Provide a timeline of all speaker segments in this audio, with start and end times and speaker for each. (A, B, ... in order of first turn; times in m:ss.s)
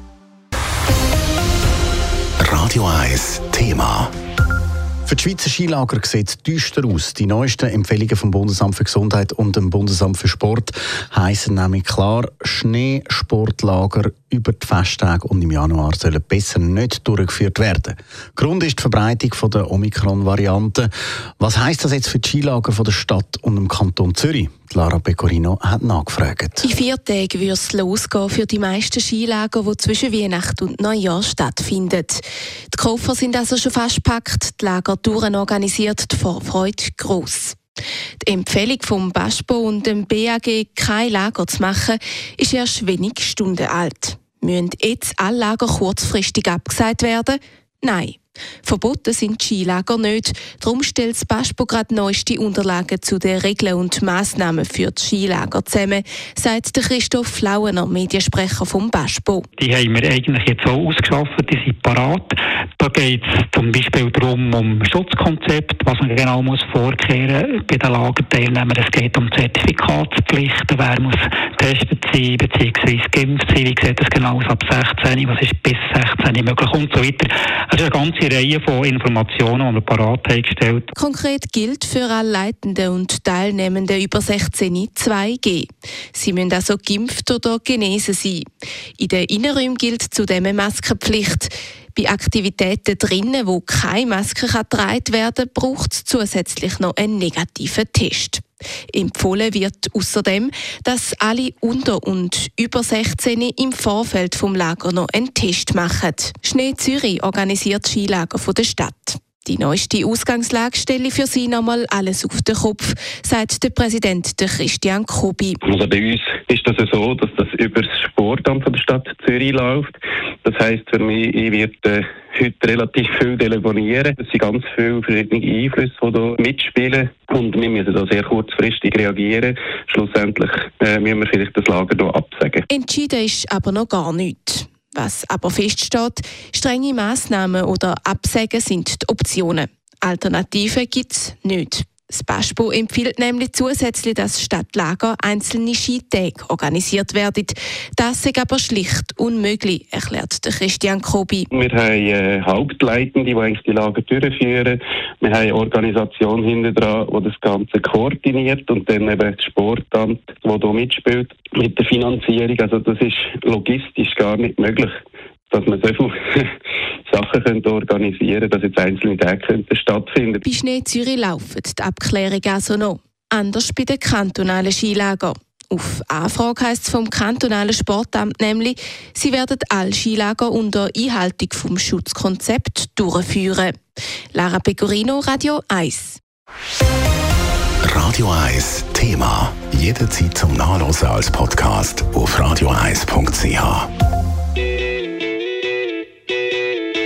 0:02.4-0:04.1 A
0:05.1-0:26.7 B
0:26.6-0:37.6 C
0:38.2-0:59.5 C
0:59.6-1:20.8 D
1:21.0-1:28.5 C
1:29.0-1:55.6 C
1:55.6-2:12.6 E
2:12.7-2:31.5 C
2:31.5-2:45.0 E
2:45.5-2:46.5 E
2:47.1-2:50.4 E
2:50.4-3:03.8 C
3:04.3-3:06.2 C
3:07.8-3:13.9 A